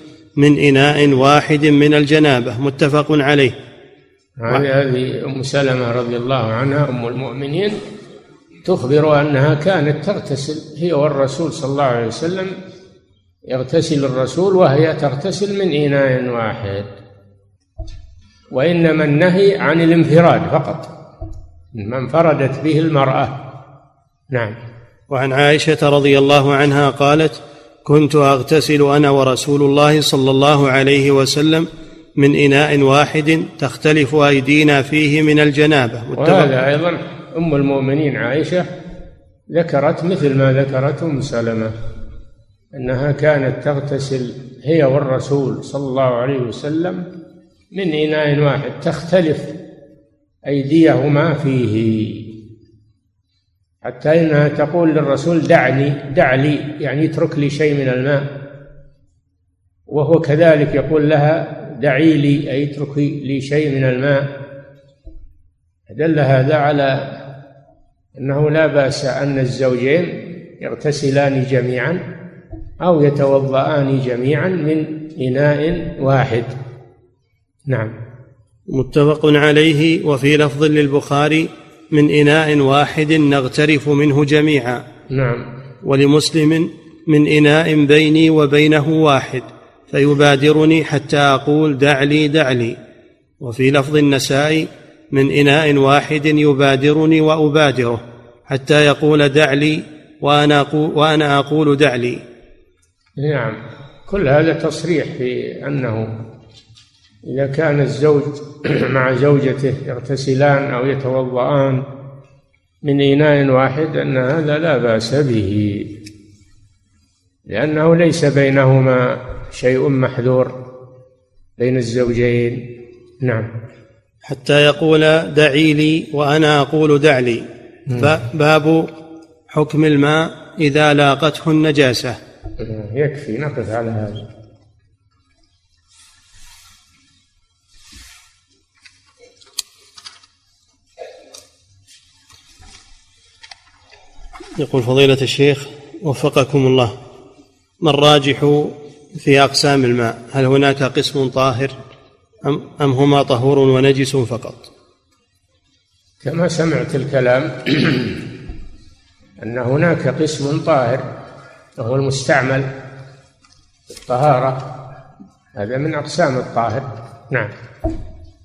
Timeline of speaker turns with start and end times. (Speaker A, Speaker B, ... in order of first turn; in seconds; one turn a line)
Speaker A: 0.4-3.5
Speaker B: 4.4-7.8
Speaker B: 8.7-12.6
Speaker B: 13.5-16.9
Speaker B: 18.5-20.9
Speaker B: 21.8-23.4
Speaker A: 25.1-36.5
Speaker B: 36.2-38.7
Speaker B: 39.5-41.8
Speaker B: 42.8-47.1
Speaker B: 47.7-49.5
Speaker B: 50.5-52.3
Speaker B: 53.8-58.3
Speaker B: 59.9-64.3
Speaker B: 65.9-67.1
Speaker B: 68.2-72.0
Speaker B: 72.8-76.5
Speaker B: 77.7-77.9
Speaker A: 78.7-84.8
Speaker B: 85.1-85.5
Speaker A: 85.8-92.8
Speaker A: 93.4-102.2
Speaker B: 103.2-106.1
Speaker B: 107.2-111.8
Speaker B: 112.8-115.9
Speaker B: 117.5-120.6
Speaker B: 121.6-122.6
Speaker B: 123.2-123.5
Speaker A: 124.2-127.5
Speaker A: 128.0-128.9
Speaker A: 129.5-132.2
Speaker B: 132.6-134.3
Speaker A: 144.6-146.9
Speaker A: 147.8-151.8
Speaker A: 152.4-154.7
Speaker B: 156.2-158.3
Speaker B: 159.4-161.0
Speaker B: 161.8-162.7
Speaker B: 163.9-164.7
Speaker B: 165.6-167.5